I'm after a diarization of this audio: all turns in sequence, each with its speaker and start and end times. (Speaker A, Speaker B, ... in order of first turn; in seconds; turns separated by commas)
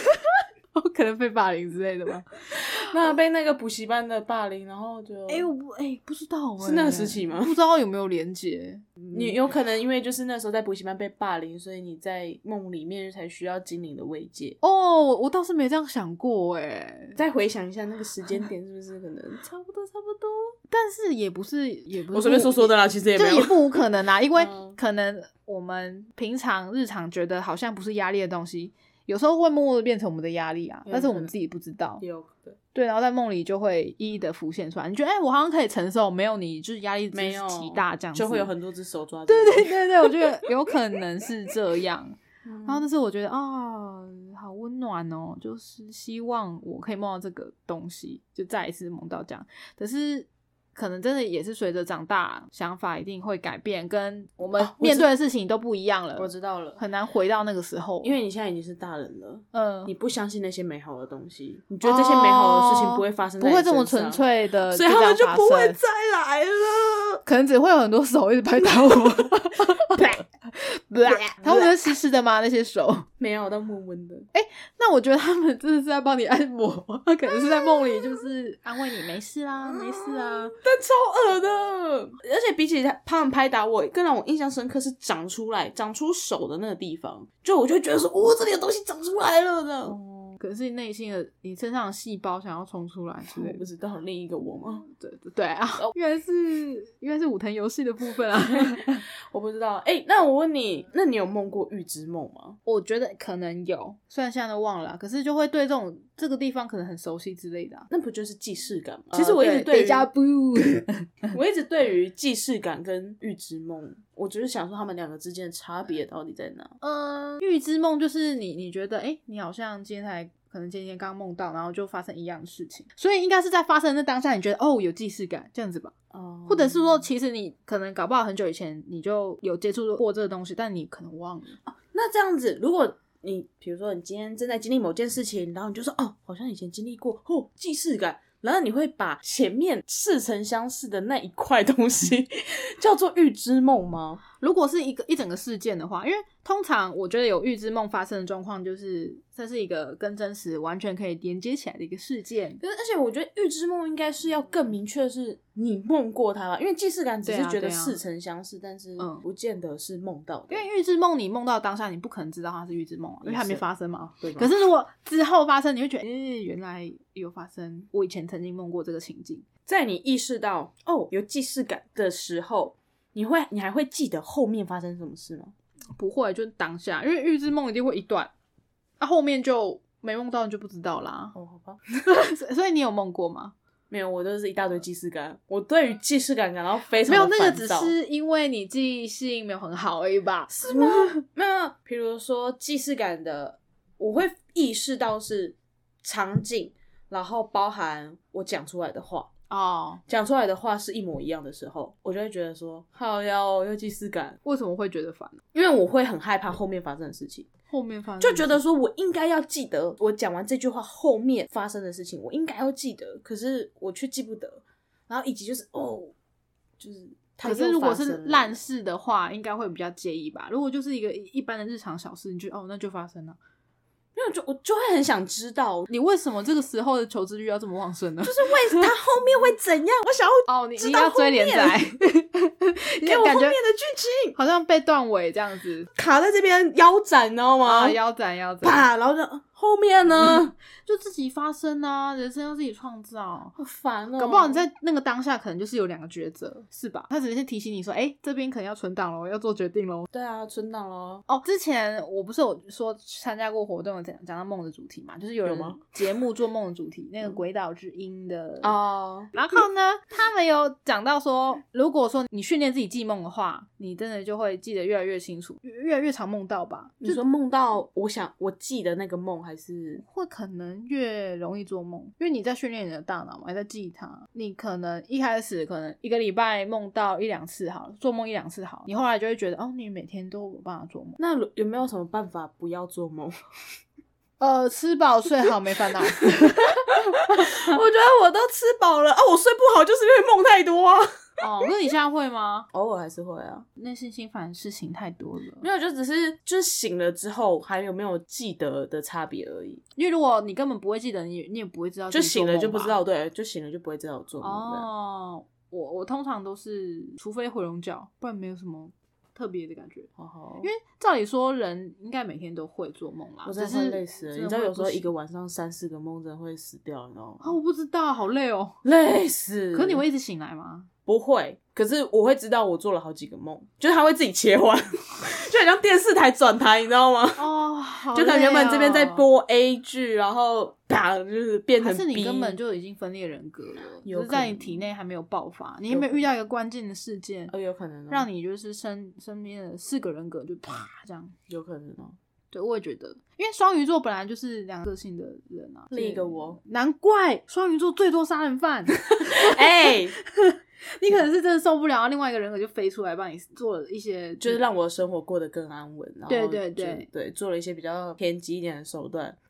Speaker A: 0.1-2.9, Speaker B: 2.5-5.5, Speaker A: 5.3-9.4, Speaker B: 6.6-7.5, Speaker B: 9.1-14.6, Speaker A: 14.6-17.2, Speaker B: 17.2-20.5, Speaker A: 20.7-32.0, Speaker B: 22.1-23.8, Speaker B: 24.3-24.8, Speaker B: 30.9-31.3, Speaker B: 32.0-32.6, Speaker A: 32.7-38.5, Speaker B: 37.1-40.3, Speaker A: 39.3-58.1, Speaker B: 42.4-42.9, Speaker B: 54.6-55.1, Speaker B: 56.1-56.8, Speaker B: 58.0-67.2, Speaker A: 59.5-59.9, Speaker A: 61.8-65.8, Speaker A: 67.2-73.1, Speaker B: 69.9-70.2, Speaker B: 71.0-71.7, Speaker B: 73.2-74.3, Speaker A: 74.3-80.5, Speaker B: 77.3-78.0, Speaker B: 79.6-90.0, Speaker A: 89.9-93.6, Speaker B: 93.3-94.8, Speaker A: 94.8-99.0, Speaker B: 98.5-102.6, Speaker A: 102.6-107.9, Speaker B: 107.9-110.1, Speaker A: 109.1-111.3, Speaker B: 111.3-116.7, Speaker A: 116.8-125.9, Speaker B: 126.1-127.1, Speaker A: 126.5-131.6, Speaker B: 131.7-144.2, Speaker A: 144.4-152.6, Speaker B: 152.6-160.7, Speaker A: 157.2-158.0, Speaker A: 160.5-169.4, Speaker B: 163.2-163.6, Speaker B: 164.2-164.5, Speaker B: 169.7-175.5, Speaker A: 176.0-178.3, Speaker A: 179.0-181.3, Speaker B: 181.3-181.8, Speaker A: 182.1-183.5, Speaker B: 183.9-187.9, Speaker A: 187.1-191.2, Speaker B: 190.6-199.3, Speaker A: 199.5-200.0, Speaker B: 200.1-204.4, Speaker A: 204.4-205.4, Speaker B: 205.5-207.5, Speaker A: 207.7-208.6, Speaker B: 208.2-216.1, Speaker B: 216.8-218.6, Speaker A: 217.4-223.4, Speaker B: 224.2-225.9, Speaker A: 225.9-228.9, Speaker B: 228.2-231.8, Speaker A: 230.5-233.6, Speaker B: 233.0-234.3, Speaker A: 234.3-235.9, Speaker B: 235.9-238.0, Speaker A: 237.6-238.9, Speaker B: 238.6-240.5, Speaker A: 240.2-243.6, Speaker B: 243.6-244.6, Speaker A: 244.2-250.1, Speaker B: 250.1-251.2, Speaker A: 251.3-258.7, Speaker B: 255.4-255.8, Speaker B: 258.6-259.3, Speaker A: 259.3-267.2, Speaker B: 267.0-270.0, Speaker A: 270.0-281.2, Speaker B: 281.2-283.3, Speaker A: 284.4-287.8, Speaker B: 286.1-291.1, Speaker A: 291.4-292.7, Speaker B: 292.7-293.6, Speaker A: 293.8-295.7, Speaker B: 295.6-299.8, Speaker A: 299.9-303.0, Speaker B: 302.1-304.9, Speaker A: 304.4-310.1, Speaker B: 310.2-310.7, Speaker A: 310.6-315.1, Speaker B: 313.4-317.6, Speaker A: 317.4-318.8, Speaker B: 318.8-320.0, Speaker A: 319.7-320.9, Speaker B: 321.1-327.5, Speaker A: 327.4-329.2, Speaker B: 328.1-332.6, Speaker A: 331.8-337.5, Speaker B: 334.0-334.8, Speaker B: 335.9-336.2, Speaker B: 337.5-338.3, Speaker A: 338.1-341.3, Speaker B: 341.5-342.1, Speaker A: 342.5-354.6, Speaker B: 345.9-346.6, Speaker B: 349.2-350.1, Speaker B: 354.4-359.4, Speaker A: 356.3-357.1